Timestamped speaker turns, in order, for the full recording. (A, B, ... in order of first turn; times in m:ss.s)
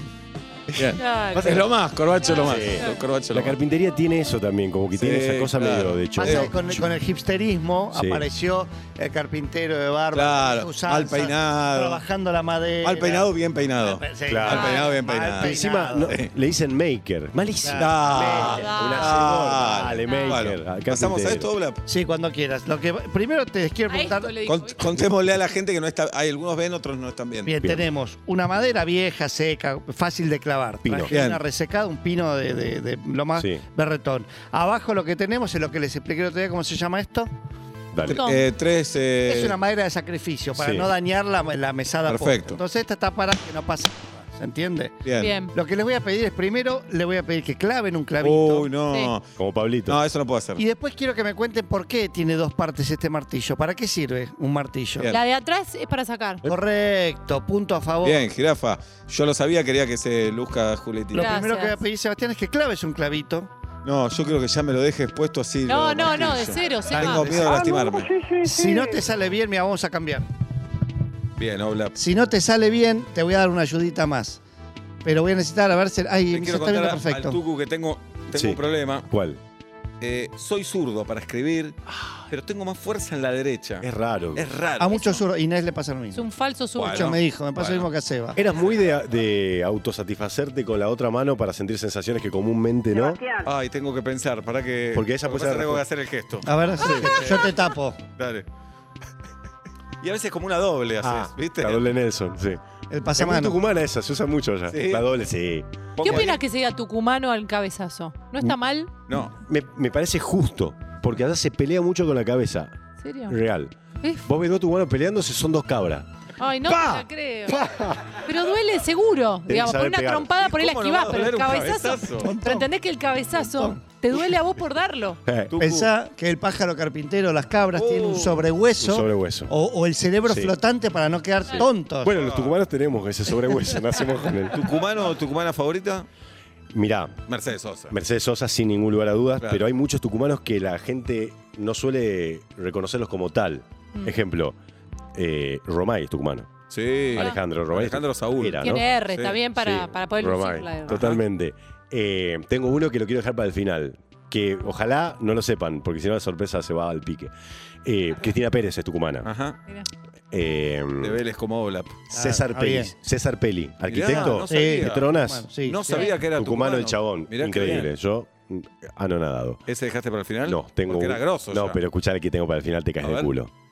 0:00.7-0:03.6 A
0:01.0-0:01.6 B
0:01.3-0:01.6 C
0:02.4-0:06.8 C
0:04.9-0:06.5 A
0:06.2-0:16.1 D
0:07.9-0:08.3 C
0:10.1-0:12.0 A
0:12.8-0:16.3 A
0:14.3-0:14.8 C
0:14.5-0:14.9 B
0:15.4-0:21.5 C
0:17.6-0:18.8 D
0:17.8-0:21.8 A
0:18.4-0:19.2 B
0:20.0-0:20.4 B
0:21.9-0:24.3 D
0:23.9-0:25.0 B
0:24.4-0:27.5 A
0:27.4-0:37.3 D
0:30.8-0:31.1 C
0:31.1-0:31.4 A
0:33.4-0:33.6 C
0:37.9-0:38.2 C
0:38.0-0:39.6 A
0:38.1-0:38.4 B
0:39.3-0:45.0 D
0:40.5-0:40.9 C
0:42.1-0:42.6 A
0:45.0-0:45.3 A
0:45.2-0:45.5 B
0:45.5-0:48.7 D
0:48.2-0:49.2 A
0:49.4-0:50.0 C
0:49.8-0:50.6 A
0:50.6-0:55.1 D
0:55.1-0:56.4 B
0:56.4-0:58.2 D
0:58.0-1:01.4 A
1:01.1-1:03.5 D
1:01.1-1:01.8 B
1:03.8-1:08.3 A
1:05.7-1:07.6 B
1:06.9-1:07.8 D
1:08.4-1:10.3 D
1:11.4-1:12.0 A
1:12.0-1:14.4 D
1:15.0-1:17.4 D
1:16.3-1:19.1 A
1:18.3-1:19.4 C
1:20.0-1:21.8 A
1:22.3-1:25.2 A
1:23.8-1:24.6 C
1:24.8-1:26.2 D
1:26.1-1:27.2 B
1:26.8-1:27.9 A
1:26.8-1:28.4 D
1:28.4-1:33.3 C
1:33.3-1:37.5 A
1:34.9-1:35.8 C
1:36.4-1:38.0 D
1:36.8-1:37.2 C
1:38.1-1:38.4 A
1:40.0-1:41.8 A
1:41.0-1:42.6 C
1:42.9-1:43.6 D
1:43.2-1:46.3 C
1:44.7-1:45.1 A
1:46.0-1:46.4 A
1:46.0-1:48.9 B
1:49.1-1:49.3 A
1:49.4-1:52.7 C
1:53.0-1:53.4 B
1:53.3-1:53.7 C
1:54.2-1:56.1 C
1:56.4-1:57.6 B
1:56.6-1:58.1 C
1:58.2-2:05.2 B
1:59.5-2:00.3 C
2:00.4-2:02.4 A
2:02.2-2:02.7 D
2:05.2-2:05.9 C
2:05.5-2:05.9 A
2:05.6-2:12.2 D
2:07.7-2:08.5 A
2:08.8-2:09.5 C
2:10.2-2:10.6 C
2:11.5-2:14.7 C
2:12.0-2:12.6 A
2:14.5-2:16.1 A
2:16.7-2:17.2 C
2:17.3-2:17.9 A
2:17.9-2:24.6 C
2:19.4-2:19.6 A
2:25.1-2:26.5 C
2:26.7-2:29.4 A
2:27.1-2:28.8 C
2:28.6-2:31.0 B
2:29.6-2:37.3 C
2:30.9-2:31.2 A
2:37.8-2:39.3 C
2:39.2-2:39.6 A
2:40.3-2:41.2 C
2:41.0-2:42.0 A
2:42.1-2:45.5 C
2:42.1-2:42.9 D
2:43.9-2:45.1 A
2:43.9-2:46.1 D
2:45.6-2:47.9 A
2:46.2-2:49.6 C
2:49.6-2:51.8 A
2:50.4-2:53.5 C
2:53.0-2:53.3 A